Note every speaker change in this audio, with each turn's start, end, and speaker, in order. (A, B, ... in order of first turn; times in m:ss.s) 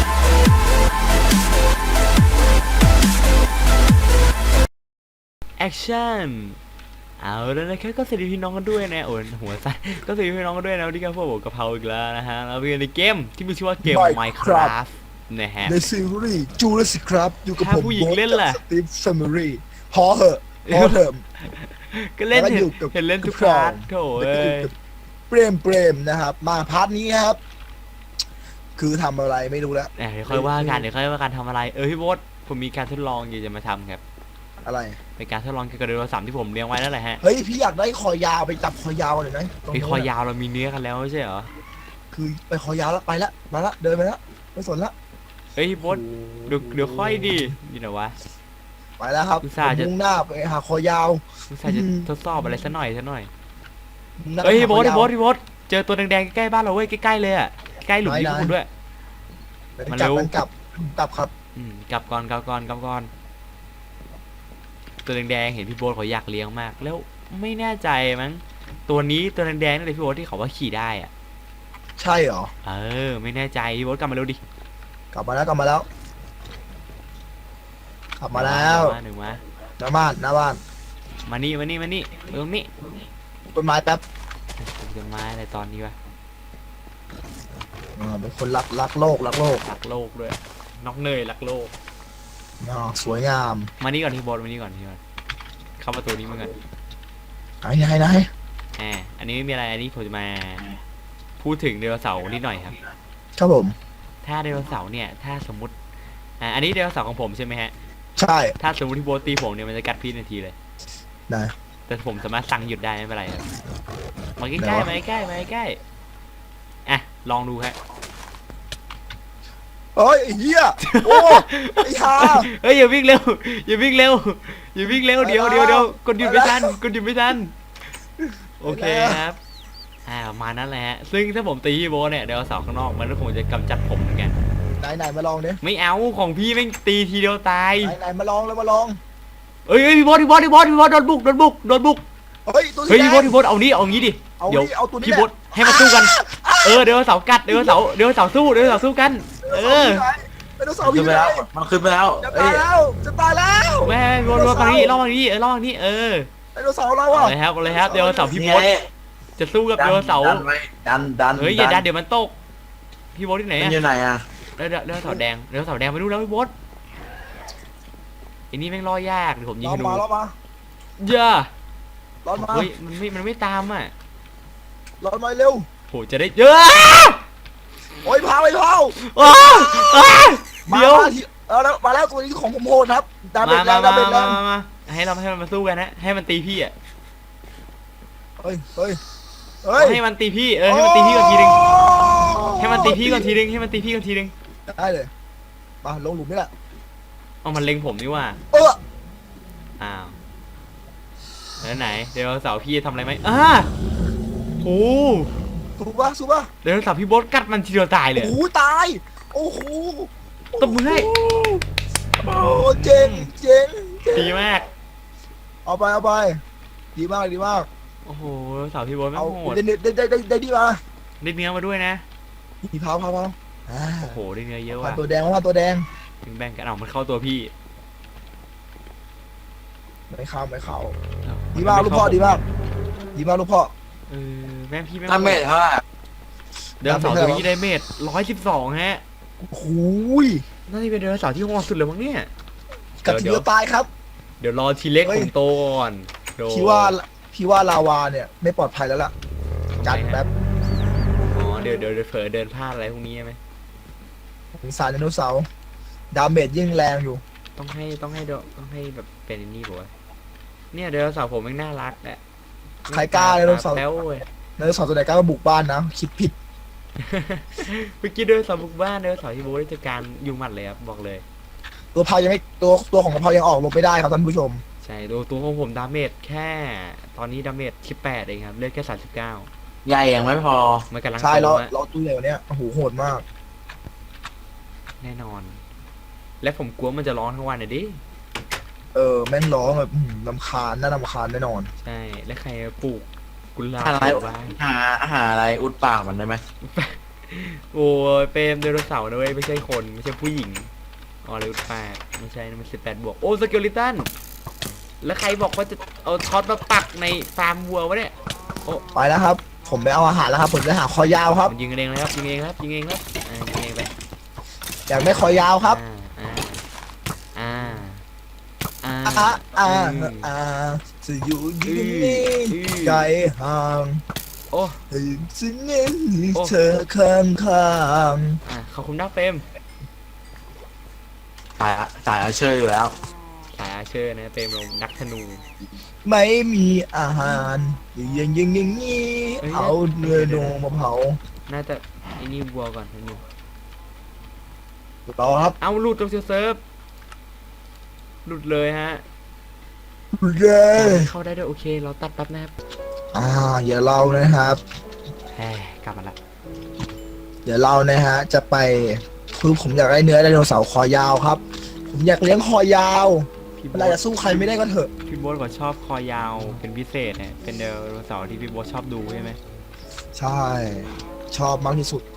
0:05.6-0:06.6 A
0:07.2-0:15.8 A
0:13.8-0:14.7 B
0:15.7-0:21.2 B
0:17.6-0:18.6 A
0:20.6-0:24.7 A
0:22.3-0:24.7 B
0:25.3-0:27.4 B
0:28.8-0:30.9 B
0:30.0-0:34.0 A
0:34.6-0:35.0 B
0:35.2-0:37.2 A
0:37.2-0:40.1 B
0:39.7-0:41.5 A
0:42.1-0:44.9 B
0:45.6-0:48.2 A
0:45.8-0:47.5 B
0:49.0-0:52.1 B
0:49.4-0:49.9 A
0:51.5-0:53.3 A
0:54.2-0:55.1 B
0:54.4-0:58.7 A
0:58.0-0:58.6 B
0:59.8-1:01.3 B
0:59.9-1:00.3 A
1:01.6-1:03.1 A
1:05.0-1:11.1 A
1:12.0-1:12.5 B
1:12.6-1:14.4 A
1:15.1-1:15.9 B
1:18.2-1:19.0 B
1:18.3-1:19.4 A
1:19.8-1:20.6 B
1:21.3-1:22.7 A
1:23.5-1:24.0 B
1:24.6-1:26.0 A
1:28.0-1:29.6 B
1:29.6-1:31.7 A
1:32.6-1:33.7 B
1:33.8-1:35.0 A
1:35.8-1:36.5 A
1:37.6-1:38.3 B
1:38.8-1:40.6 A
1:41.4-1:42.8 A
1:43.4-1:43.8 B
1:44.2-1:45.8 A
1:46.4-1:47.7 A
1:48.2-1:48.6 B
1:48.6-1:50.6 A
1:51.3-1:51.5 B
1:51.9-1:53.5 A
1:54.4-1:55.8 A
1:54.6-1:54.9 B
1:56.9-1:57.8 A
2:00.0-2:02.5 B
2:00.8-2:07.5 A
2:05.2-2:06.8 B
2:08.2-2:09.2 B
2:08.6-2:09.4 A
2:10.1-2:14.4 A
2:14.8-2:15.6 B
2:15.6-2:18.0 A
2:17.8-2:19.0 B
2:19.7-2:22.0 A
2:22.5-2:23.3 B
2:22.9-2:30.1 A
2:24.4-2:27.0 B
2:27.5-2:27.8 B
2:29.4-2:31.5 B
2:30.8-2:32.6 C
2:32.2-2:34.9 B
2:33.8-2:36.3 A
2:36.6-2:38.3 B
2:37.1-2:38.7 A
2:38.1-2:38.8 C
2:39.4-2:40.5 A
2:39.8-2:41.8 C
2:41.4-2:42.4 A
2:43.1-2:43.8 A
2:43.6-2:44.2 C
2:44.6-2:46.5 A
2:48.5-2:50.0 A
2:49.6-2:50.4 B
2:51.0-2:51.5 A
2:52.2-2:52.7 B
2:52.4-2:53.9 A
2:55.0-2:55.7 B
2:55.9-2:57.2 A
2:58.0-3:04.4 B
2:59.0-3:01.1 A
3:03.4-3:06.7 A
3:08.4-3:09.0 B
3:09.6-3:10.0 B
3:09.8-3:11.7 A
3:10.7-3:13.3 B
3:12.6-3:14.3 A
3:14.7-3:15.1 B
3:15.8-3:16.5 B
3:17.4-3:18.4 A
3:18.5-3:18.8 B
3:19.8-3:20.2 A
3:21.6-3:23.7 A
3:24.6-3:25.3 A
3:25.8-3:26.5 B
3:26.6-3:28.4 A
3:28.2-3:31.6 B
3:30.6-3:31.1 A
3:32.2-3:34.4 B
3:32.6-3:33.3 A
3:34.1-3:34.7 A
3:35.7-3:36.4 B
3:37.0-3:37.7 B
3:38.1-3:39.6 A
3:39.2-3:40.8 B
3:41.2-3:42.0 A
3:42.6-3:44.2 B
3:44.0-3:45.0 A
3:44.8-3:45.9 B
3:46.2-3:47.5 A
3:50.1-3:51.0 B
3:51.2-3:52.4 A
3:51.6-3:52.4 B
3:53.2-3:53.7 B
3:54.1-3:55.4 A
3:55.1-3:55.8 C
3:56.8-3:59.0 A
3:56.8-3:57.5 B
3:59.4-4:00.4 B
4:00.7-4:02.3 A
4:03.0-4:03.9 B
4:03.0-4:03.5 A
4:04.4-4:07.0 A
4:05.0-4:05.3 B
4:06.5-4:09.1 B
4:09.7-4:10.2 A
4:09.8-4:10.3 B
4:11.3-4:13.4 A
4:14.5-4:15.5 B
4:16.1-4:17.2 B
4:17.6-4:19.9 A
4:20.7-4:22.2 A
4:22.9-4:24.3 A
4:22.9-4:23.9 B
4:24.6-4:26.4 B
4:27.0-4:31.2 A
4:31.9-4:34.6 B
4:34.8-4:39.5 A
4:39.8-4:40.9 C
4:40.9-4:41.7 A
4:41.2-4:43.2 B
4:45.0-4:45.6 A
4:46.4-4:48.0 A
4:48.9-4:51.7 B
4:51.8-4:54.6 A
4:53.8-4:56.4 C
4:56.6-5:00.7 A
5:01.2-5:04.1 A
5:05.0-5:08.1 A
5:08.9-5:11.5 B
5:11.4-5:13.9 A
5:14.9-5:15.8 B
5:15.0-5:16.6 A
5:17.4-5:18.0 A
5:18.8-5:20.3 A
5:19.1-5:24.0 B
5:21.6-5:23.1 A
5:24.5-5:24.8 A
5:24.9-5:28.4 B
5:28.4-5:29.4 A
5:31.6-5:33.0 C
5:33.6-5:35.5 A
5:36.0-5:41.2 B
5:39.4-5:40.6 A
5:41.5-5:43.2 A
5:45.1-5:45.6 B
5:45.6-5:46.6 A
5:48.2-5:49.0 A
5:50.1-5:51.1 B
5:50.8-5:52.5 A
5:53.1-5:54.6 B
5:55.3-5:56.2 A
5:57.4-6:04.9 B
6:03.6-6:04.5 A
6:05.1-6:09.4 A
6:10.2-6:12.0 B